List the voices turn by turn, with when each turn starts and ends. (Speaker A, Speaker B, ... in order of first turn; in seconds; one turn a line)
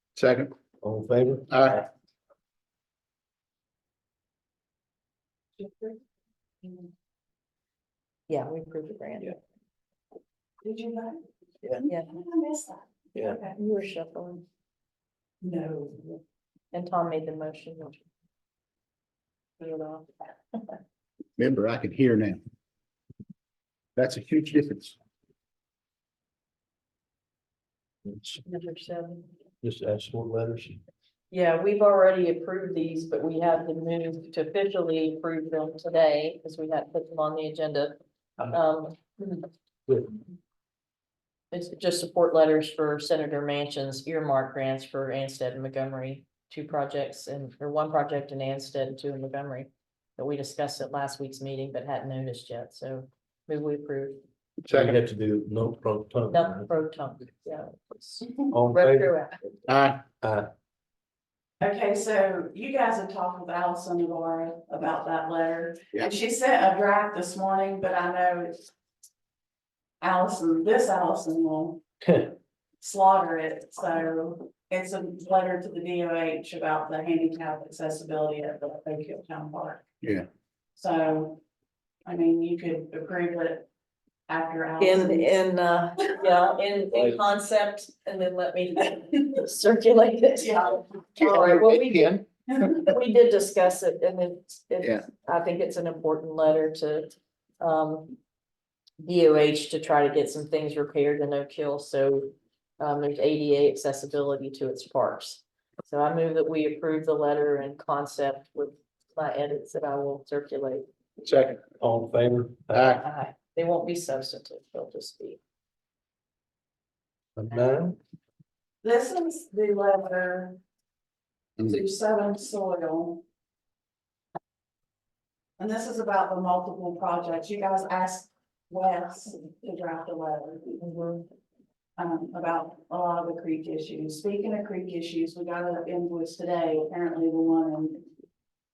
Speaker A: 0.1-0.5
Speaker B: 0.8-1.9
Speaker A: 1.5-1.8
Speaker C: 5.6-6.0
Speaker C: 6.6-6.9
Speaker D: 8.3-9.3
Speaker C: 10.6-11.2
Speaker D: 11.9-12.1
Speaker C: 11.9-13.6
Speaker D: 13.5-14.4
Speaker C: 15.4-16.2
Speaker D: 16.7-18.0
Speaker D: 19.6-20.4
Speaker A: 21.4-22.4
Speaker A: 23.9-24.9
Speaker B: 28.0-28.4
Speaker D: 28.4-29.2
Speaker B: 29.6-30.8
Speaker D: 31.3-37.9
Speaker D: 38.5-39.4
Speaker B: 39.9-40.2
Speaker D: 41.5-54.2
Speaker A: 54.6-55.0
Speaker B: 54.7-56.7
Speaker D: 56.3-59.6
Speaker C: 58.2-58.5
Speaker B: 58.5-59.1
Speaker A: 59.7-60.0
Speaker B: 60.2-60.5
Speaker C: 61.6-68.7
Speaker C: 70.0-71.8
Speaker B: 72.0-72.3
Speaker C: 72.8-79.8
Speaker A: 80.0-80.3
Speaker C: 80.8-81.4
Speaker C: 82.0-83.7
Speaker C: 84.3-85.4
Speaker D: 84.8-92.2
Speaker C: 90.4-91.6
Speaker A: 91.2-92.2
Speaker C: 92.5-92.7
Speaker D: 92.7-98.2
Speaker D: 99.0-110.8
Speaker A: 111.2-111.6
Speaker B: 111.8-113.0
Speaker A: 112.7-113.0
Speaker D: 113.0-115.4
Speaker B: 117.4-118.0
Speaker C: 118.8-120.6
Speaker C: 121.6-123.2
Speaker C: 125.6-130.7
Speaker D: 130.8-131.3
Speaker C: 132.0-138.0